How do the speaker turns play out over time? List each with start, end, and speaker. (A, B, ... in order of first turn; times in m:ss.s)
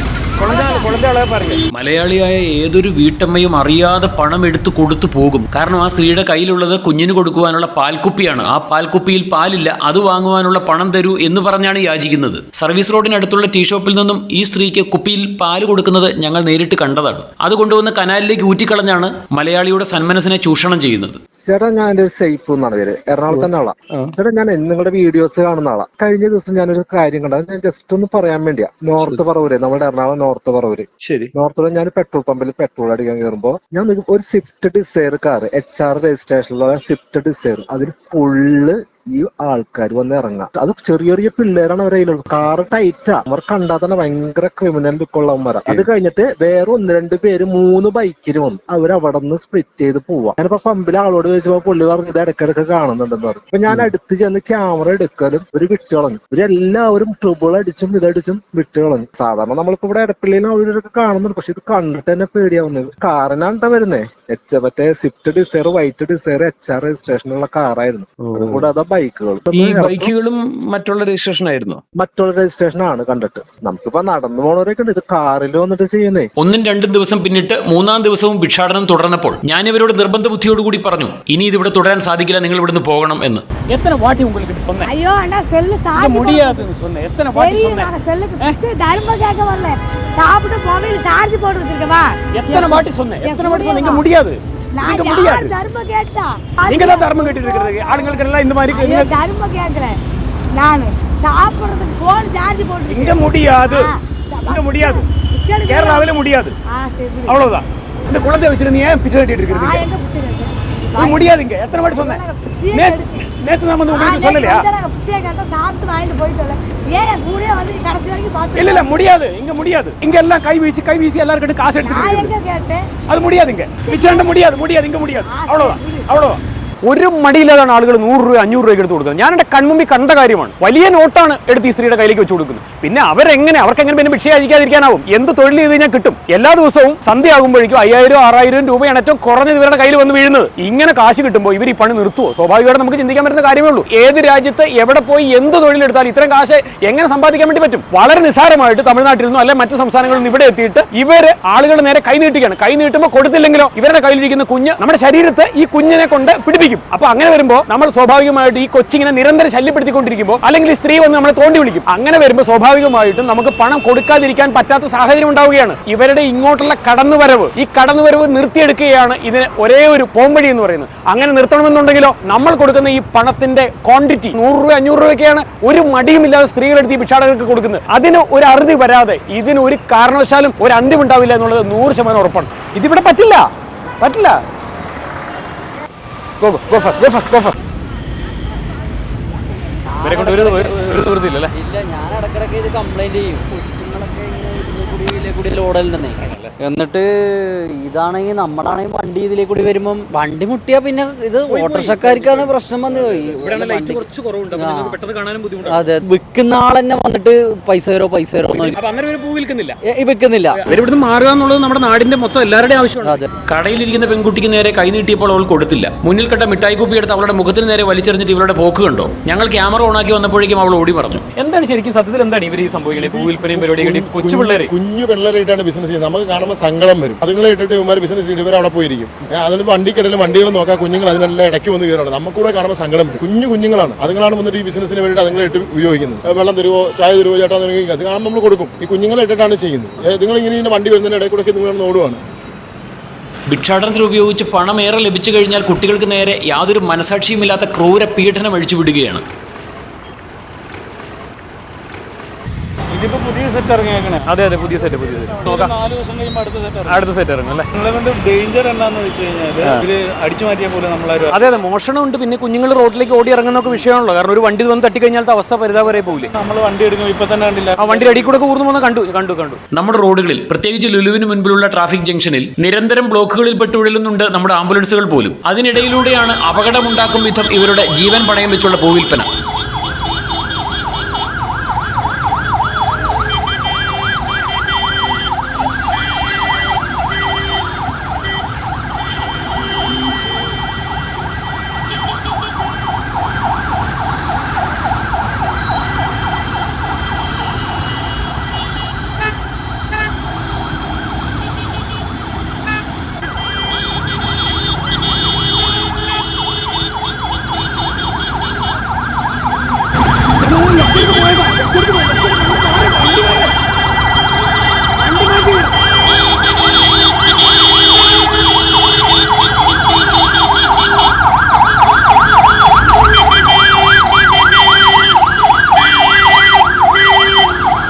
0:00.4-0:01.6 A
0:00.4-0:00.9 B
0:01.7-0:21.2 C
0:21.4-1:10.1 D
1:08.4-1:08.7 C
1:09.5-1:10.4 C
1:10.3-1:11.0 A
1:11.0-1:11.8 C
1:12.0-1:16.3 D
1:16.4-1:23.4 C
1:23.7-1:24.9 A
1:24.8-1:26.7 B
1:26.0-1:28.6 A
1:27.3-1:34.1 B
1:32.3-1:35.6 A
1:34.7-1:40.0 B
1:36.7-1:39.1 A
1:40.5-1:46.1 B
1:42.9-1:43.9 A
1:44.5-1:45.0 A
1:45.7-1:46.6 A
1:46.7-1:47.4 B
1:47.3-1:49.9 A
1:49.5-1:51.3 B
1:51.0-1:52.2 A
1:51.9-1:53.2 B
1:52.7-1:54.7 A
1:53.9-1:59.0 B
1:58.6-2:02.3 A
2:01.8-2:02.9 B
2:03.1-3:03.5 A
2:03.8-2:04.4 B
2:05.0-2:06.1 B
3:04.0-3:04.4 A
3:06.4-3:07.6 A
3:09.9-3:11.0 E
3:10.0-3:11.5 A
3:11.5-3:25.0 E
3:16.2-3:16.5 A
3:21.5-3:25.9 A
3:25.6-3:28.8 E
3:28.6-3:29.8 A
3:29.8-3:30.6 E
3:30.5-3:33.2 A
3:33.0-3:33.3 E
3:33.5-3:41.3 C
3:41.3-3:44.7 A
3:42.9-4:02.2 F
3:43.0-3:44.6 C
4:03.5-4:09.2 C
4:12.9-4:14.3 G
4:14.3-4:15.7 A
4:14.8-4:17.0 G
4:16.9-4:17.6 A
4:17.8-4:21.6 G
4:21.3-4:26.3 A
4:25.9-4:28.4 G
4:27.8-4:29.6 A
4:29.7-4:39.3 C
4:35.0-4:35.4 A
5:10.4-5:13.5 A
5:15.0-5:15.7 A